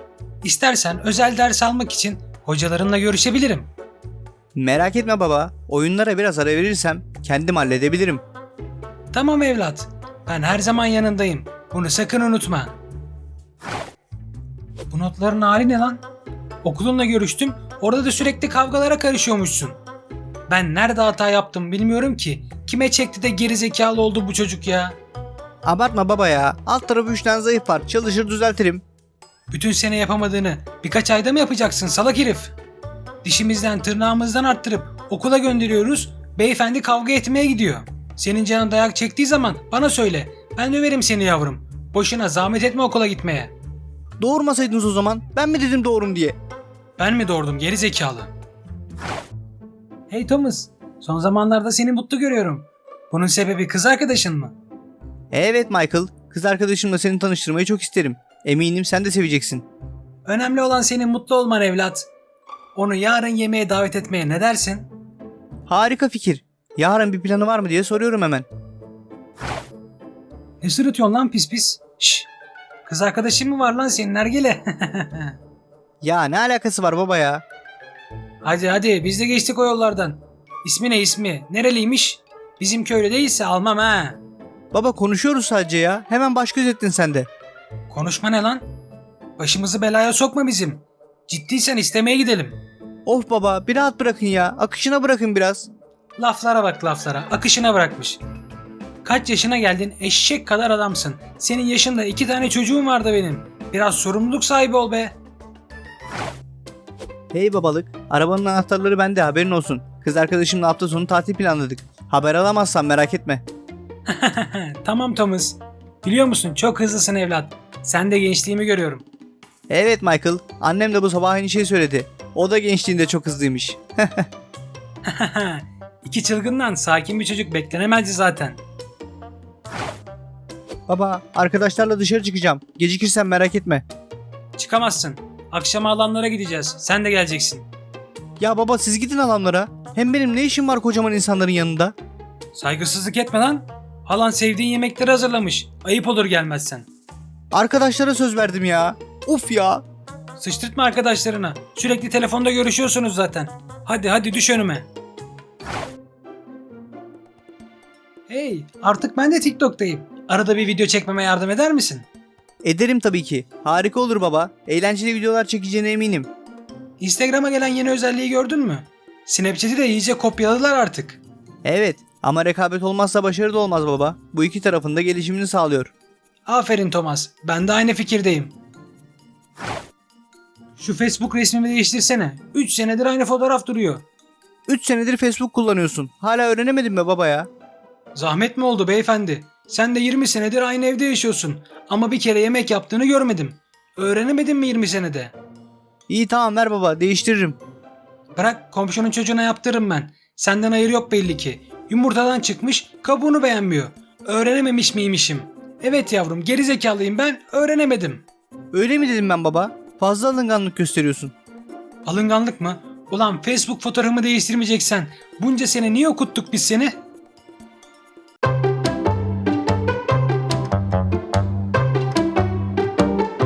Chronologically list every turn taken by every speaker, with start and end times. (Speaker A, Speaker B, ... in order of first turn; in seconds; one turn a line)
Speaker A: 0.4-3.7
Speaker B: 4.5-8.2
Speaker A: 9.1-12.8
Speaker A: 14.9-16.0
Speaker A: 16.6-19.8
Speaker A: 20.5-25.0
Speaker B: 25.6-28.8
Speaker A: 29.5-32.5
Speaker A: 33.2-43.5
Speaker B: 44.2-46.4
Speaker A: 47.0-48.3
Speaker A: 50.1-54.5
Speaker B: 55.3-59.6
Speaker A: 60.2-62.1
Speaker A: 62.7-64.9
Speaker B: 65.7-68.5
Speaker A: 70.6-72.3
Speaker A: 72.8-75.3
Speaker B: 76.0-77.4
Speaker A: 78.4-84.2
Speaker B: 84.7-87.3
Speaker A: 87.9-88.6
Speaker A: 89.4-92.6
Speaker B: 93.0-95.7
Speaker A: 96.2-98.2
Speaker A: 99.0-105.2
Speaker B: 107.3-113.4
Speaker A: 114.1-119.0
Speaker B: 119.7-124.3
Speaker A: 125.0-128.6
Speaker B: 130.9-133.8
Speaker A: 134.6-137.7
Speaker B: 138.4-141.9
Speaker A: 142.5-146.9
Speaker B: 147.5-149.8
Speaker A: 150.4-154.9
Speaker A: 158.3-162.1
Speaker B: 162.6-166.3
Speaker A: 167.0-171.2
Speaker B: 171.6-175.9
Speaker A: 176.4-178.5
Speaker A: 180.8-184.0
Speaker B: 184.7-187.5
Speaker A: 188.1-195.3
Speaker B: 196.1-197.6
Speaker A: 198.3-208.2
Speaker B: 208.7-211.3
Speaker A: 212.0-216.9